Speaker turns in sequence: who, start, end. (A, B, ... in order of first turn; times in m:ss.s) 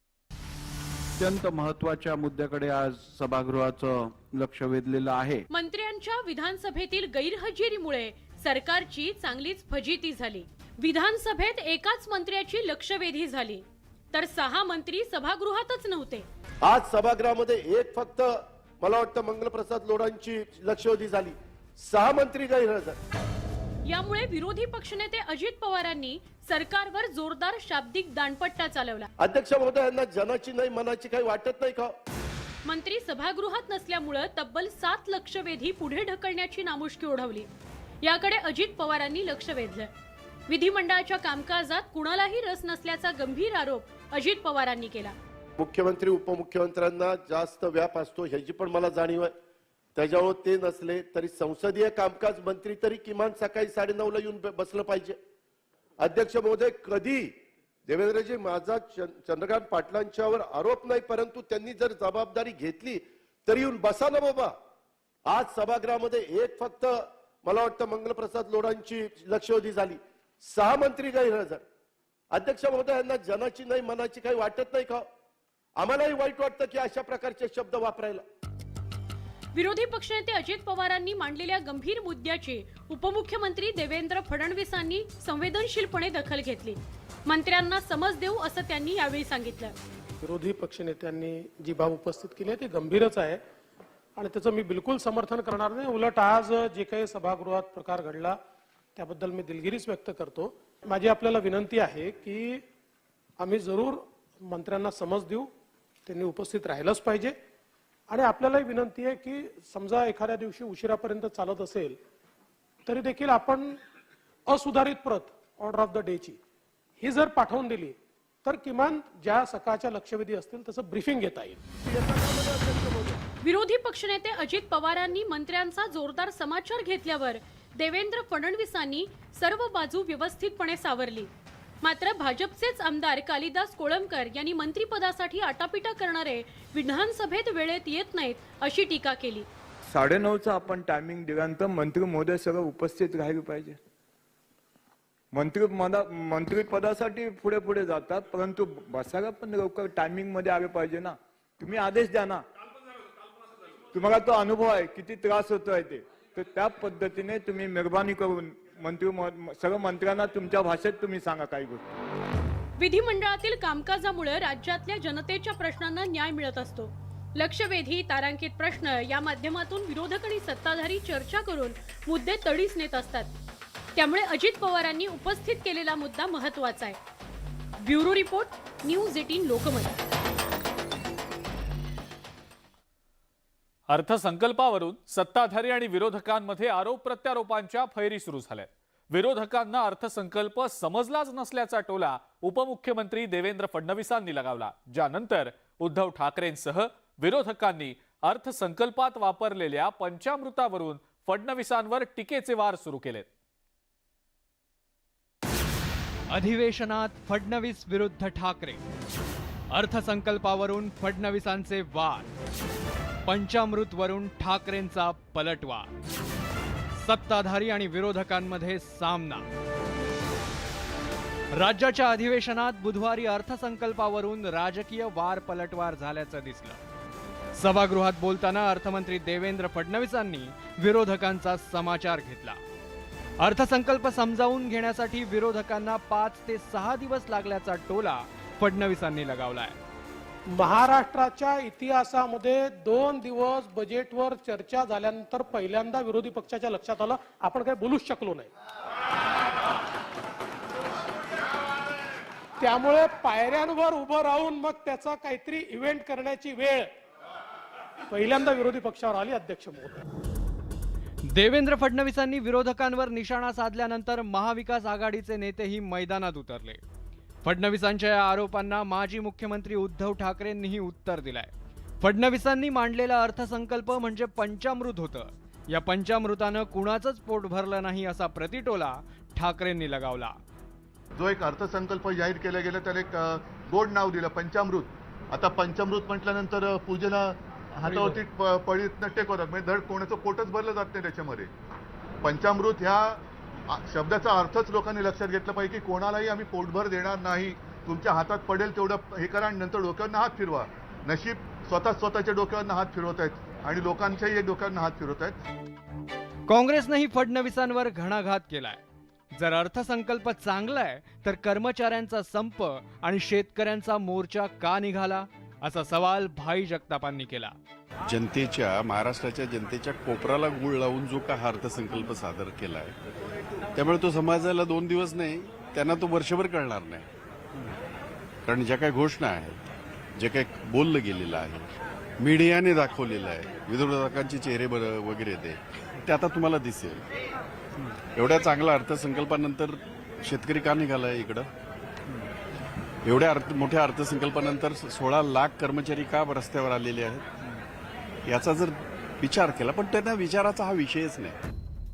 0:01.2-0:05.4 A
0:05.5-0:16.3 B
0:16.6-0:23.0 C
0:23.9-0:29.1 B
0:29.2-0:32.0 C
0:32.7-0:37.5 B
0:38.0-0:39.9 B
0:40.5-0:45.2 B
0:45.6-0:49.3 C
0:50.0-0:55.2 C
0:56.0-0:57.3 C
0:57.9-1:04.5 C
1:05.3-1:11.6 C
1:12.3-1:15.1 C
1:15.8-1:18.2 C
1:19.6-1:29.7 B
1:30.2-1:33.4 D
1:34.2-1:38.4 D
1:39.0-1:42.6 D
1:43.4-1:45.5 D
1:46.1-1:47.4 D
1:48.1-1:52.0 D
1:52.9-1:53.8 D
1:54.5-1:56.4 D
1:57.0-2:01.6 D
2:01.8-2:03.2 C
2:03.4-2:11.3 B
2:11.8-2:19.5 B
2:19.9-2:23.8 E
2:25.3-2:32.4 E
2:33.9-2:41.9 E
2:42.8-2:53.3 B
2:54.0-2:57.0 B
2:57.8-3:00.0 B
3:03.9-3:23.3 F
3:26.3-3:28.8 G
3:29.7-3:32.3 G
3:33.3-3:35.9 G
3:37.0-3:39.5 G
3:41.5-3:46.8 G
3:47.6-3:52.6 G
3:53.4-3:59.8 G
4:00.5-4:08.5 D
4:12.6-4:16.9 D
4:18.1-4:20.0 D
4:21.3-4:26.8 G
4:27.4-4:40.4 G
4:41.2-4:51.5 H
4:47.9-4:48.2 D
4:52.2-5:05.4 H
5:06.5-5:08.8 G
5:09.3-5:17.6 G
5:18.1-5:23.0 I
5:23.8-5:27.7 I
5:28.5-5:29.6 I
5:30.2-5:37.1 I
5:38.1-5:41.5 I
5:43.0-5:47.3 I
5:48.2-5:51.4 I